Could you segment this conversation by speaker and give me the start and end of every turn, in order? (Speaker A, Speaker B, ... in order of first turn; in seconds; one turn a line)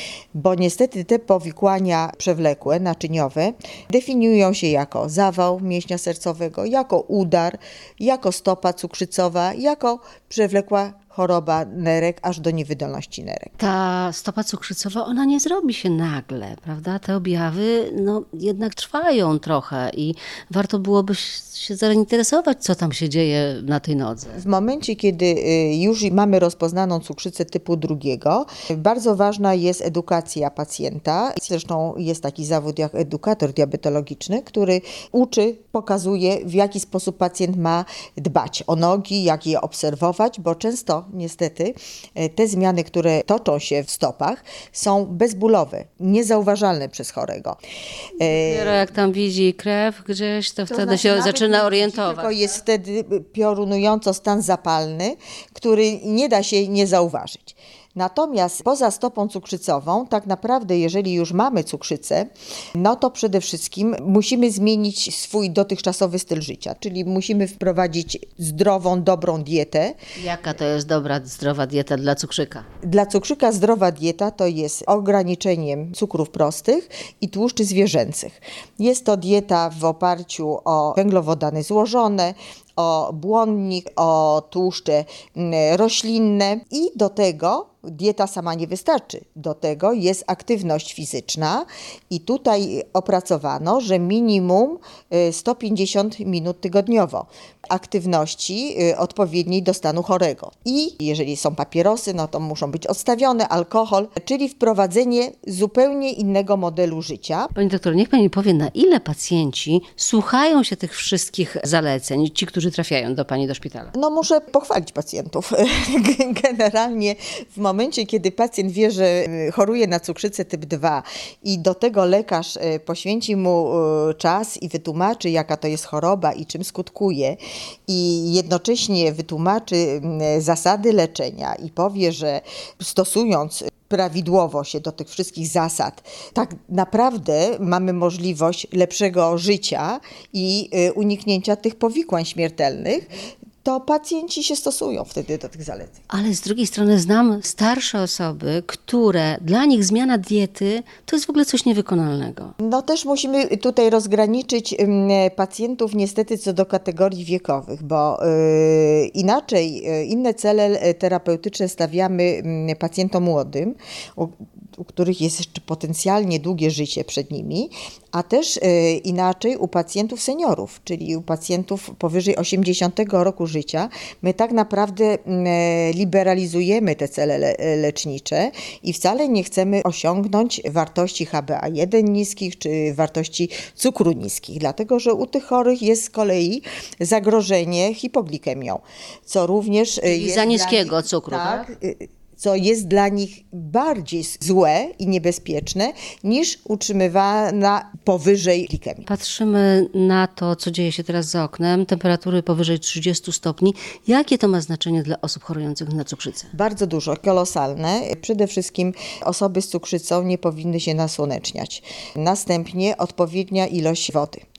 Speaker A: 0.3-13.5
Speaker B: 13.6-24.4
Speaker A: 24.4-47.6
Speaker A: 48.2-48.8
Speaker B: 48.2-52.5
Speaker A: 50.7-70.0
Speaker B: 70.2-72.7
Speaker A: 72.8-107.5
Speaker B: 107.5-113.9
Speaker A: 113.9-143.1
Speaker A: 143.6-146.0
Speaker B: 146.1-152.5
Speaker A: 152.6-199.1
Speaker B: 190.1-191.7
Speaker B: 199.1-206.5
Speaker A: 206.5-214.4